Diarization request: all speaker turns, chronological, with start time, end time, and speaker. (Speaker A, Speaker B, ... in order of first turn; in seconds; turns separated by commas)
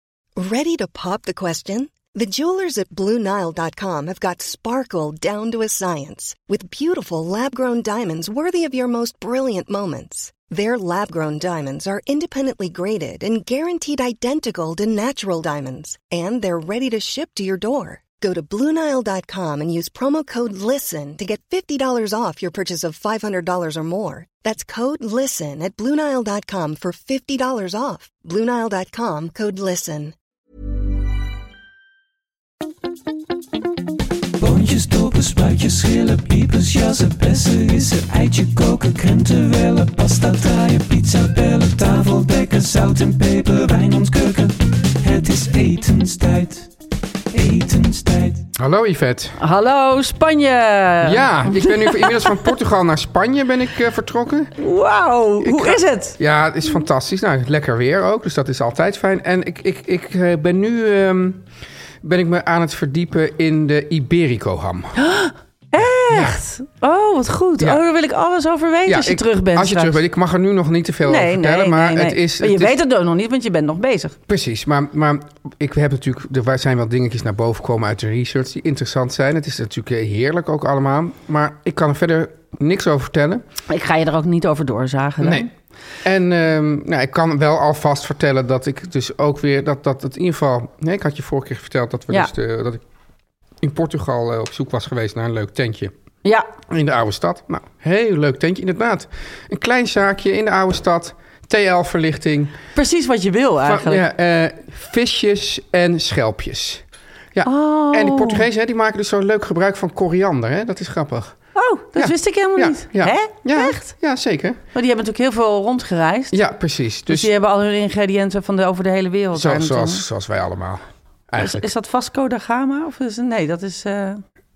Speaker A: 0.4-30.1, Speaker B: 34.4-46.7, Speaker B: 47.3-48.5, Speaker C: 48.5-49.4, Speaker D: 49.4-52.4, Speaker C: 51.0-54.5, Speaker D: 54.6-56.2, Speaker C: 55.4-61.4, Speaker C: 62.0-65.0, Speaker D: 65.0-70.0, Speaker C: 66.0-66.4, Speaker C: 68.9-72.8, Speaker D: 71.0-74.2, Speaker C: 74.3-83.5, Speaker D: 83.7-85.5, Speaker C: 85.2-85.5, Speaker C: 86.0-92.8, Speaker C: 93.6-95.9, Speaker C: 96.7-102.6, Speaker D: 102.8-104.0, Speaker C: 103.6-106.8, Speaker C: 107.3-111.3, Speaker D: 107.4-108.5, Speaker D: 111.5-113.9, Speaker C: 111.9-114.6, Speaker D: 114.7-116.4, Speaker C: 116.3-117.3, Speaker D: 117.1-120.0, Speaker C: 119.3-121.7, Speaker D: 121.4-124.2